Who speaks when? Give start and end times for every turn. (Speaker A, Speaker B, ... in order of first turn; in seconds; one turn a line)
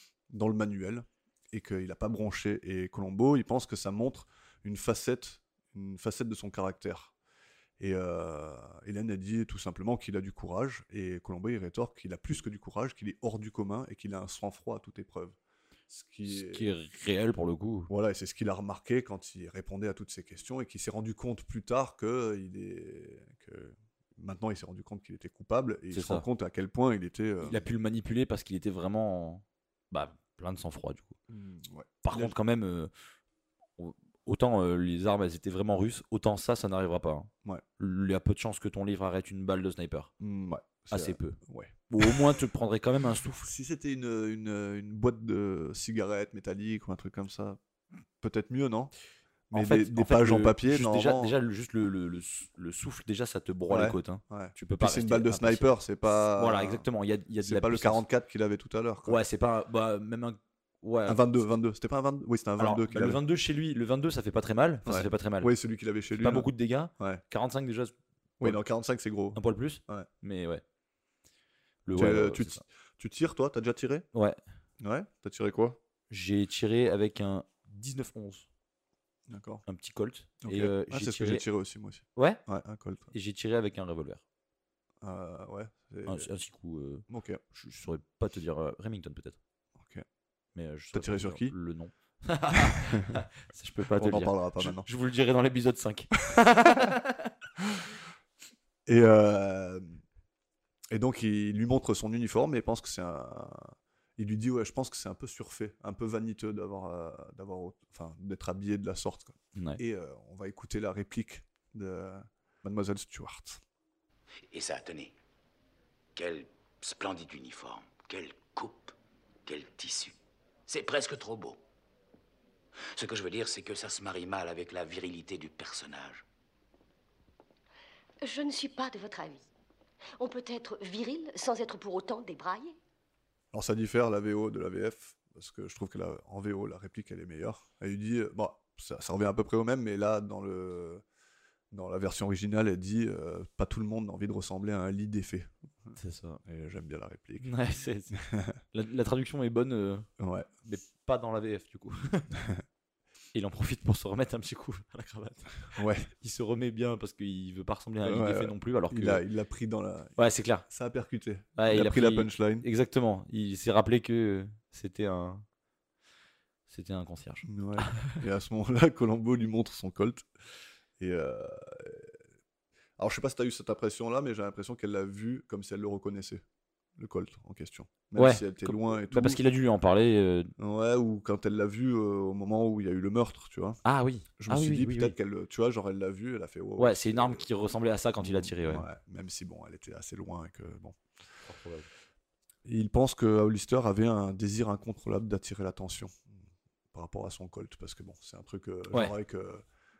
Speaker A: 0.3-7.1
Speaker A: 7.8-15.4
Speaker A: 15.9-16.6
Speaker B: 16.3-17.9
Speaker A: 17.9-27.6
Speaker B: 25.9-26.3
Speaker B: 27.4-31.1
Speaker A: 31.3-32.4
Speaker B: 32.0-32.9
Speaker B: 33.8-40.1
Speaker A: 40.2-42.3
Speaker B: 40.9-43.5
Speaker A: 43.4-47.6
Speaker A: 48.2-48.9
Speaker A: 49.5-51.4
Speaker B: 49.5-55.7
Speaker A: 53.7-56.9
Speaker B: 56.4-58.0
Speaker A: 57.4-59.2
Speaker B: 59.0-61.2
Speaker A: 61.0-63.2
Speaker B: 62.6-65.5
Speaker A: 64.8-67.2
Speaker B: 66.2-68.6
Speaker A: 68.4-70.1
Speaker B: 69.3-70.6
Speaker B: 71.8-72.6
Speaker A: 71.9-74.0
Speaker A: 74.8-75.8
Speaker B: 76.1-78.5
Speaker A: 79.3-79.6
Speaker B: 79.7-81.5
Speaker A: 80.4-83.1
Speaker B: 82.2-82.4
Speaker B: 83.1-84.2
Speaker A: 85.0-86.3
Speaker B: 86.0-89.4
Speaker A: 87.1-87.4
Speaker A: 89.8-90.0
Speaker B: 90.5-97.3
Speaker A: 90.9-91.5
Speaker A: 92.5-93.2
Speaker A: 93.9-94.9
Speaker A: 98.8-100.0
Speaker A: 100.9-113.6
Speaker B: 109.5-109.8
Speaker C: 114.5-115.1
Speaker C: 116.1-118.9
Speaker C: 119.5-120.2
Speaker C: 120.7-121.6
Speaker C: 122.9-126.2
Speaker D: 128.2-129.5
Speaker D: 130.2-132.8
Speaker A: 133.5-141.0
Speaker A: 141.7-145.9
Speaker B: 145.9-146.4
Speaker A: 146.4-147.5
Speaker B: 147.4-148.2
Speaker A: 148.1-148.6
Speaker B: 148.7-150.1
Speaker A: 150.2-150.5
Speaker B: 150.6-152.3
Speaker A: 152.3-152.6
Speaker B: 153.3-159.2
Speaker A: 155.7-156.1
Speaker A: 158.0-162.7
Speaker B: 160.2-160.7
Speaker B: 161.6-165.4
Speaker B: 166.7-168.2
Speaker A: 167.4-170.3
Speaker A: 171.0-172.1
Speaker A: 173.0-176.4
Speaker A: 176.9-179.4
Speaker B: 178.2-180.5
Speaker A: 180.6-183.8
Speaker B: 183.8-185.1
Speaker A: 184.4-187.4
Speaker B: 186.8-188.8
Speaker A: 188.2-191.0
Speaker B: 191.4-191.9
Speaker A: 192.6-196.2
Speaker A: 196.9-199.6